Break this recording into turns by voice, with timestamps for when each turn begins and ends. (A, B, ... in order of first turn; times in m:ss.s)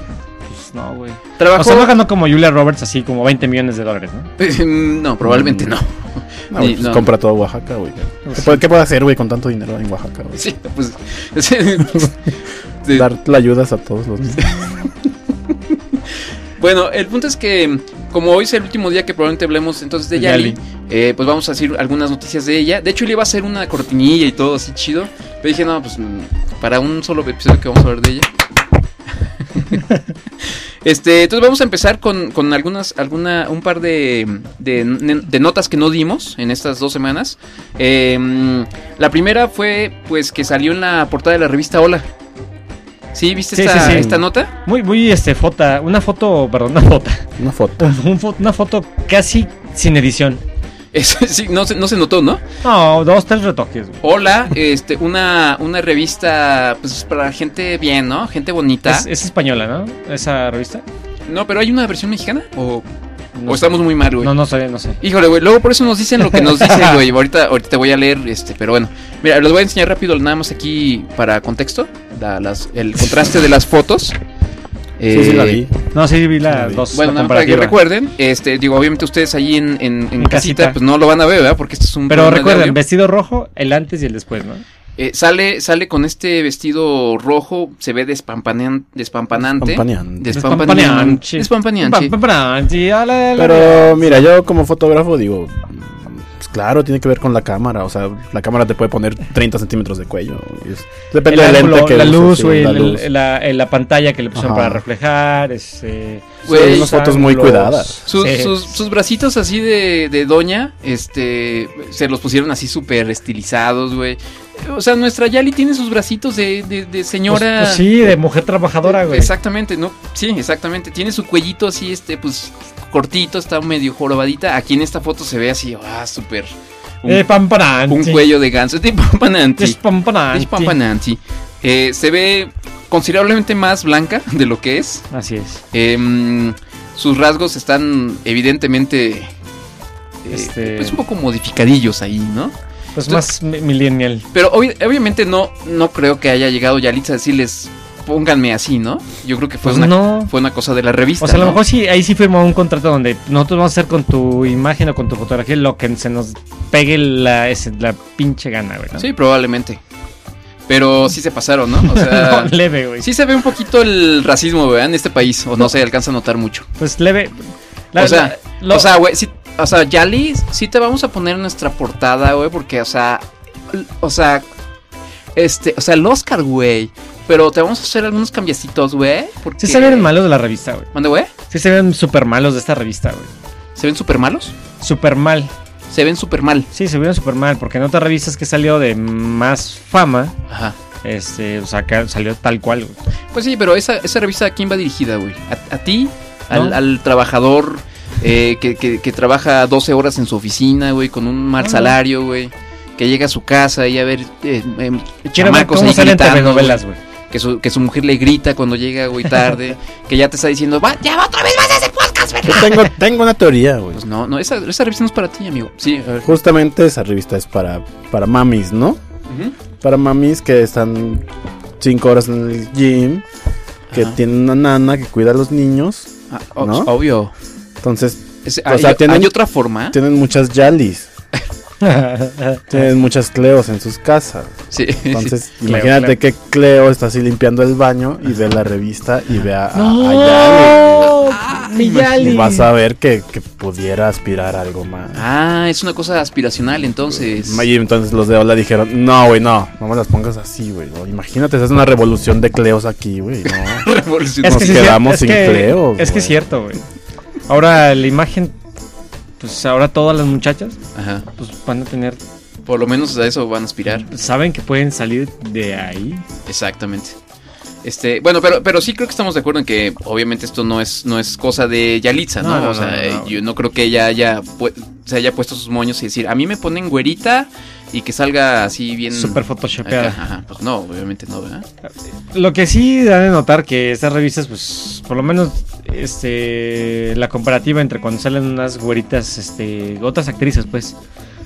0:00.5-0:04.3 A
0:01.4-0:01.9 B
0:04.4-0:07.1 B
0:05.2-0:05.7 C
0:06.5-0:10.4 C
0:08.2-0:08.6 A
0:10.4-0:12.2 B
0:12.9-0:14.8 C
0:16.6-0:28.3 B
0:20.1-0:20.6 A
0:30.4-0:42.1 B
0:43.1-0:44.5 B
0:43.5-0:44.1 A
0:43.8-0:44.2 C
0:44.6-0:47.2 A
0:47.4-0:47.9 C
0:47.8-0:50.4 A
0:50.9-0:52.4 B
0:52.6-0:54.0 A
0:54.0-0:59.1 B
0:58.8-1:00.8 A
1:01.3-1:02.8 B
1:03.4-1:05.0 A
1:03.5-1:04.3 B
1:05.0-1:14.2 B
1:06.3-1:07.0 A
1:15.0-1:15.6 B
1:15.1-1:15.7 C
1:15.9-1:17.8 A
1:16.5-1:16.8 C
1:16.9-1:22.8 B
1:20.2-1:20.8 A
1:22.1-1:24.6 A
1:25.0-1:32.1 B
1:29.4-1:30.3 C
1:30.3-1:34.2 A
1:33.4-1:43.0 C
1:41.3-1:48.7 A
1:44.3-1:44.8 C
1:46.4-1:46.9 B
1:46.5-1:48.0 C
1:48.1-1:58.1 B
1:57.3-1:59.3 A
1:58.8-2:07.3 B
2:07.1-2:08.2 A
2:07.9-2:15.0 B
2:09.6-2:10.8 A
2:15.1-2:15.6 A
2:15.7-2:19.3 B
2:20.2-2:22.5 B
2:20.3-2:21.0 A
2:23.0-2:24.2 A
2:24.3-2:31.6 B
2:29.6-2:30.3 A
2:31.2-2:39.0 A
2:39.0-2:39.8 B
2:40.7-2:46.7 B
2:41.8-2:43.0 A
2:46.8-2:48.9 A
2:48.0-2:54.4 B
2:55.4-3:00.1 B
2:59.6-3:00.9 A
3:00.9-3:01.3 B
3:01.5-3:03.3 A
3:03.8-3:04.5 B
3:04.8-3:05.5 A
3:05.9-3:06.7 B
3:06.7-3:10.3 A
3:10.5-3:10.8 B
3:11.0-3:13.0 A
3:13.3-3:26.8 B
3:16.5-3:16.8 A
3:21.6-3:21.9 A
3:25.4-3:27.0 A
3:27.3-3:32.9 B
3:32.5-3:34.0 C
3:33.9-3:36.3 B
3:36.2-3:39.0 C
3:39.3-3:39.5 B
3:39.8-3:41.2 C
3:41.8-3:43.2 C
3:43.9-3:44.2 B
3:43.9-3:46.9 C
3:46.3-3:47.3 B
3:47.8-3:49.3 C
3:48.4-3:50.0 B
3:49.9-3:51.1 C
3:51.8-3:52.9 A
3:52.7-4:01.2 C
3:54.7-3:55.3 B
3:55.6-3:56.2 A
3:59.7-4:02.7 A
4:00.1-4:02.3 B
4:02.1-4:05.2 C
4:05.1-4:07.6 B
4:07.1-4:13.8 C
4:13.4-4:14.9 B
4:14.4-4:16.8 A
4:14.4-4:16.4 C
4:17.5-4:18.6 A
4:19.4-4:20.8 A
4:20.9-4:21.2 B
4:21.4-4:22.2 A
4:22.6-4:24.0 B
4:23.9-4:26.2 A
4:26.5-4:27.2 B
4:27.8-4:41.6 B
4:32.4-4:33.4 A
4:39.1-4:40.2 A
4:41.8-4:51.0 A